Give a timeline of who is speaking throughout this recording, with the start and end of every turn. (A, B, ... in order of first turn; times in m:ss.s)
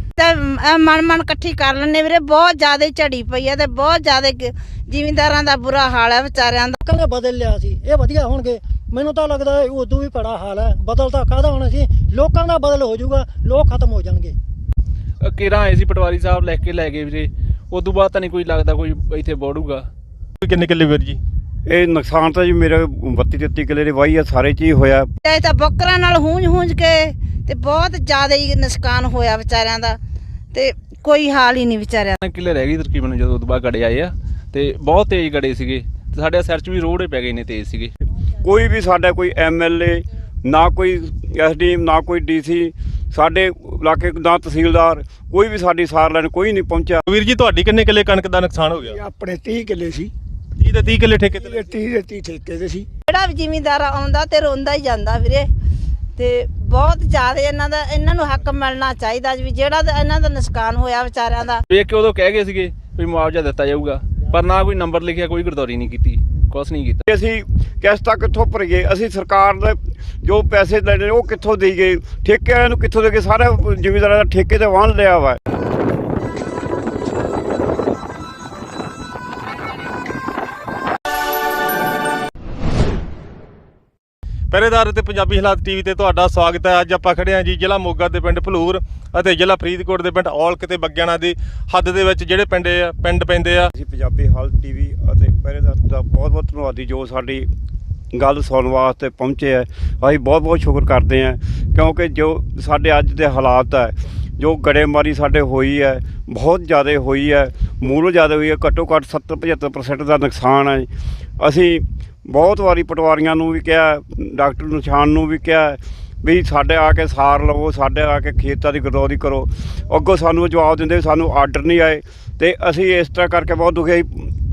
0:00.2-0:06.8 A
0:07.0-0:14.1 B
0:15.2-0:19.9 C
0:20.4-0:21.2 D
0:21.7-0:25.1 E
0:25.2-0:30.0 A
0:30.5-0:32.2 A
0:32.2-0:37.9 C
0:38.4-0:47.0 E
0:47.1-0:49.0 D
0:48.9-0:50.1 F
0:50.6-0:51.7 D
0:51.4-0:52.8 F
0:53.1-0:55.5 A
0:56.2-1:01.6 A
1:01.7-1:07.0 C
1:07.1-1:15.4 E
1:24.5-1:33.7 D
1:33.8-1:37.5 E
1:38.1-1:50.9 E
1:51.4-2:04.3 E